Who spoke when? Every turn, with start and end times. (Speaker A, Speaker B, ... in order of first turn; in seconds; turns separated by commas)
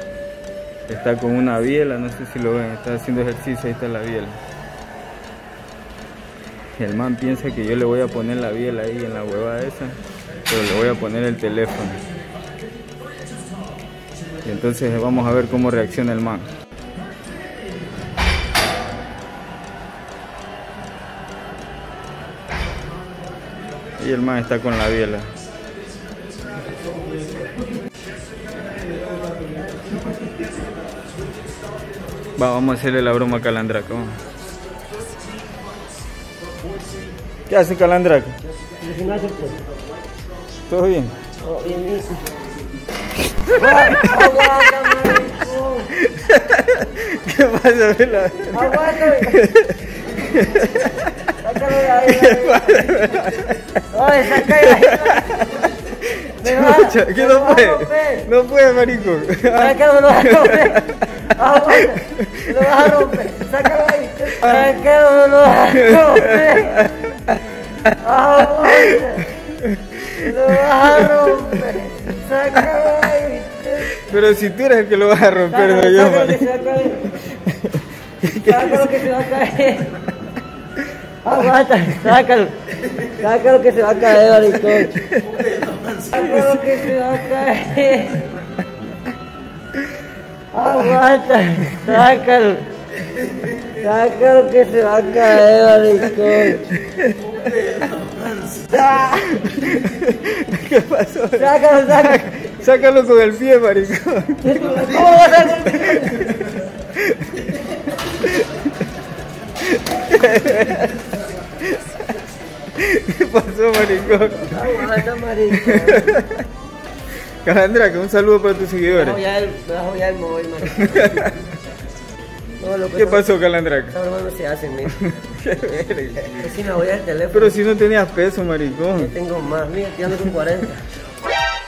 Speaker A: 0.9-4.4, Speaker A: 6.8-9.9, Speaker A: 10.5-12.0, Speaker A: 14.4-16.5, Speaker A: 24.0-25.3, Speaker A: 32.4-34.2, Speaker A: 37.5-38.4, Speaker B: 38.8-39.6, Speaker A: 40.7-41.1, Speaker B: 41.4-42.2, Speaker B: 43.5-45.9, Speaker A: 43.6-45.2, Speaker A: 45.9-63.2, Speaker B: 48.5-49.4, Speaker B: 51.4-52.9, Speaker B: 53.9-55.3, Speaker B: 56.4-58.3, Speaker B: 59.5-66.9, Speaker A: 64.3-64.7, Speaker A: 65.8-67.4, Speaker B: 68.0-69.3, Speaker A: 68.6-71.6, Speaker B: 70.2-74.0, Speaker A: 73.9-76.5, Speaker B: 75.5-77.2, Speaker A: 77.1-79.2, Speaker B: 78.3-79.9, Speaker B: 81.2-84.9, Speaker A: 84.9-85.5, Speaker B: 85.9-88.3, Speaker A: 86.2-86.8, Speaker B: 90.5-92.6, Speaker B: 93.7-96.7, Speaker A: 96.2-97.5, Speaker A: 98.7-108.7, Speaker B: 101.4-102.4, Speaker B: 104.4-106.3, Speaker A: 109.6-111.0, Speaker A: 111.6-112.2, Speaker A: 112.7-116.5, Speaker B: 114.5-116.1, Speaker A: 117.4-119.2, Speaker B: 118.9-121.3, Speaker A: 120.6-121.4, Speaker B: 122.6-123.3, Speaker A: 123.0-124.0, Speaker B: 123.9-125.0, Speaker A: 124.9-126.5, Speaker B: 126.2-127.6, Speaker A: 127.3-129.1, Speaker B: 128.9-130.8